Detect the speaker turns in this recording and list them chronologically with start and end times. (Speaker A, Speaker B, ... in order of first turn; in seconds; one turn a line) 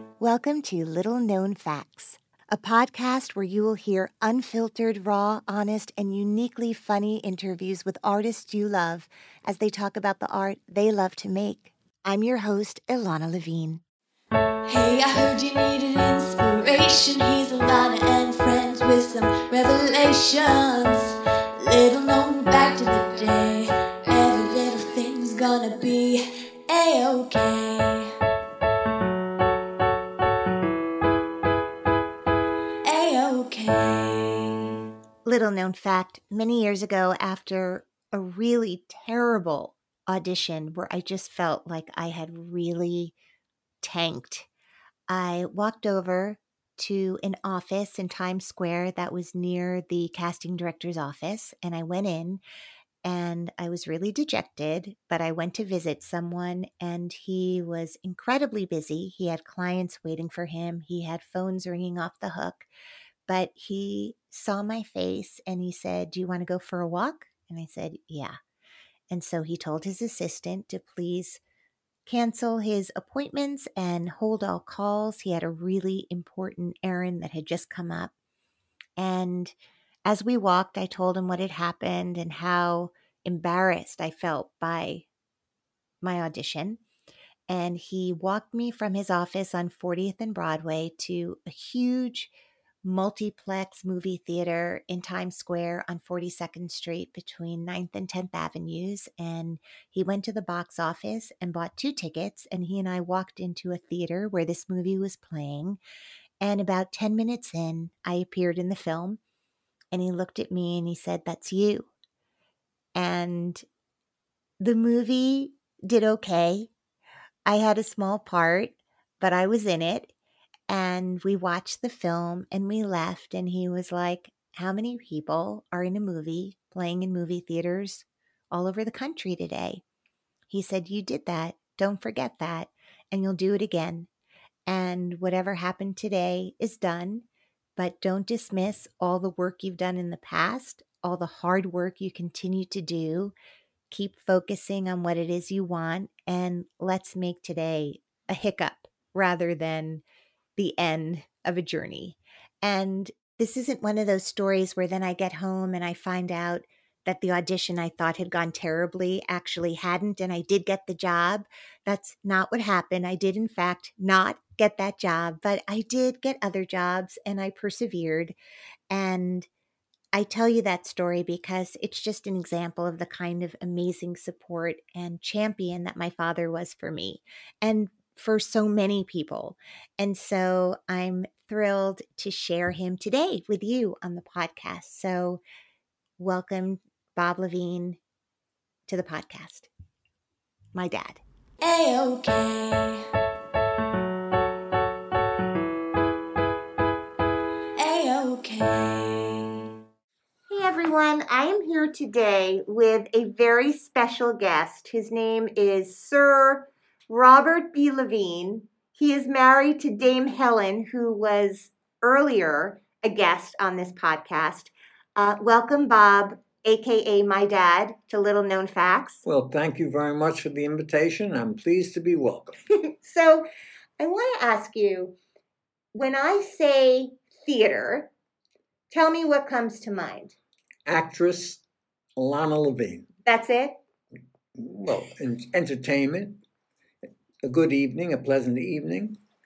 Speaker A: 0.2-13.8
Speaker B: 14.7-28.1
Speaker B: 32.8-34.7
Speaker A: 35.2-43.1
Speaker A: 43.8-44.5
Speaker A: 45.1-52.4
Speaker A: 53.0-62.7
Speaker A: 63.3-68.3
Speaker A: 69.1-71.4
Speaker A: 72.0-78.1
Speaker A: 79.0-85.1
Speaker A: 86.0-86.8
Speaker A: 87.5-105.8
Speaker A: 106.4-109.2
Speaker A: 109.9-111.9
Speaker A: 112.9-113.6
Speaker A: 114.6-116.7
Speaker A: 117.5-120.1
Speaker A: 120.7-129.8
Speaker A: 130.5-134.1
Speaker A: 134.7-137.2
Speaker A: 137.8-143.3
Speaker A: 143.9-150.0
Speaker A: 150.6-168.3
Speaker A: 168.9-169.5
Speaker A: 170.1-185.4
Speaker A: 186.2-188.0
Speaker A: 188.9-189.7
Speaker A: 190.7-191.2
Speaker B: 191.6-193.0
Speaker B: 197.8-199.7
Speaker A: 200.5-219.2
Speaker C: 219.2-222.6
Speaker A: 222.9-223.4
Speaker A: 224.0-225.2
Speaker A: 225.9-228.1
Speaker A: 228.9-230.3
Speaker C: 230.9-231.6
Speaker C: 232.2-233.1
Speaker A: 233.2-233.8
Speaker C: 234.6-236.4
Speaker C: 237.4-239.2